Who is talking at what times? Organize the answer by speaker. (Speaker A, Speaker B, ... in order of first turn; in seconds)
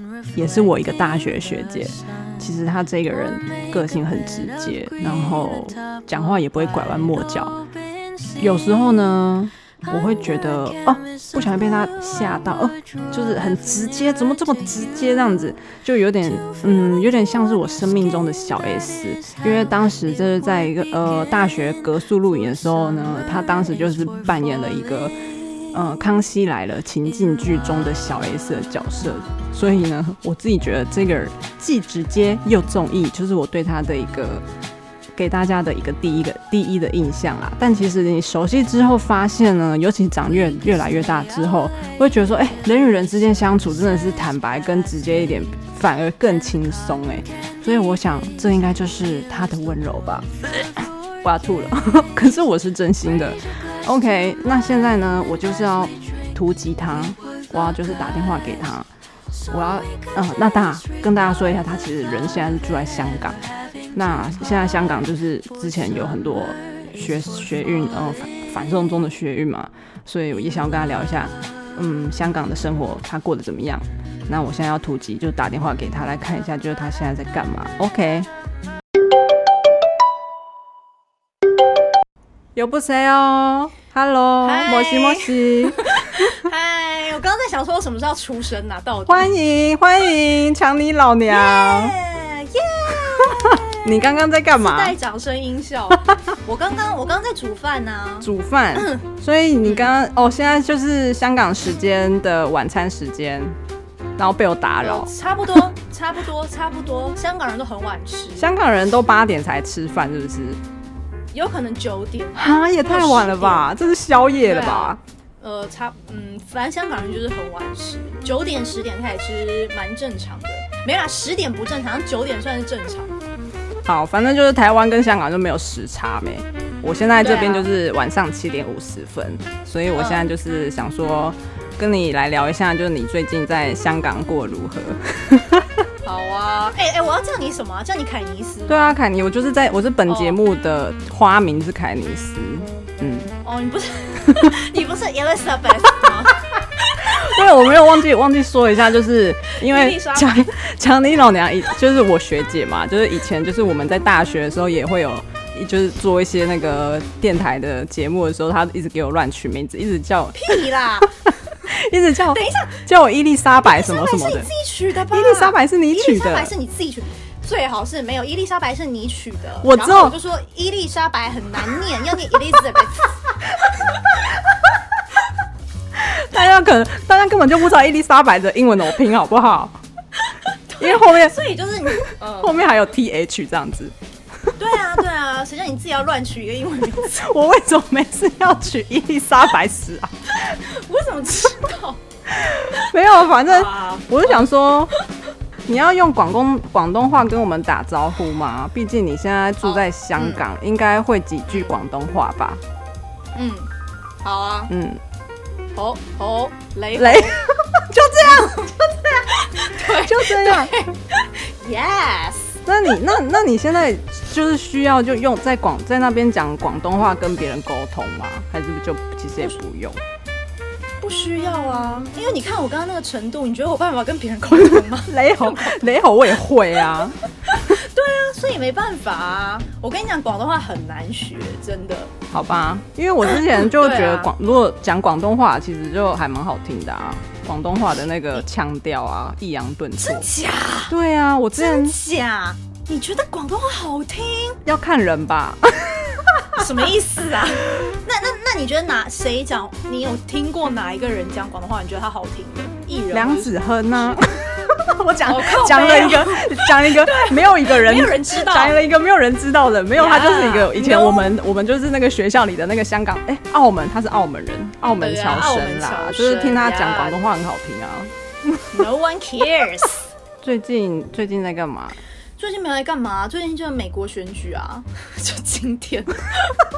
Speaker A: 0.3-7.7, 8.4-25.2, 25.7-34.5, 35.1-58.9, 59.5-78.3, 82.6-86.4, 89.1-92.0, 92.9-95.0, 98.2-103.6, 104.2-105.1, 108.4-110.6, 112.3-115.0, 123.8-135.9, 138.7-143.3, 147.0-160.6, 161.5-164.5, 165.1-166.5, 169.6-170.2, 175.9-179.8, 180.8-181.4, 181.9-183.9, 187.0-190.5, 192.3-194.9, 195.7-202.6, 204.7-205.0, 206.9-207.4, 207.9-208.5, 209.8-210.8, 212.7-220.0, 224.5-227.8, 232.3-240.3, 240.9-242.0, 244.7-246.7, 253.1-268.9, 270.4-272.0
Speaker B: 84.4-89.3, 91.3-99.0, 99.6-99.9, 104.8-108.5, 111.3-113.7, 114.4-123.2, 127.2-127.7, 129.9-130.3, 136.0-138.9, 140.1-140.4, 143.4-147.4, 149.6-150.5, 160.3-161.1, 162.3-162.9, 163.6-173.1, 180.3-182.5, 184.6-187.2, 190.3-192.0, 193.4-194.5, 199.6-200.4, 203.4-203.7, 204.2-204.7, 205.8-212.6, 221.0-225.8, 227.4-232.1, 233.3-234.3, 240.0-240.9, 241.6-244.6, 246.5-254.2, 255.3-258.8, 260.0-261.4, 265.0-267.2, 268.7-270.0, 272.4-276.6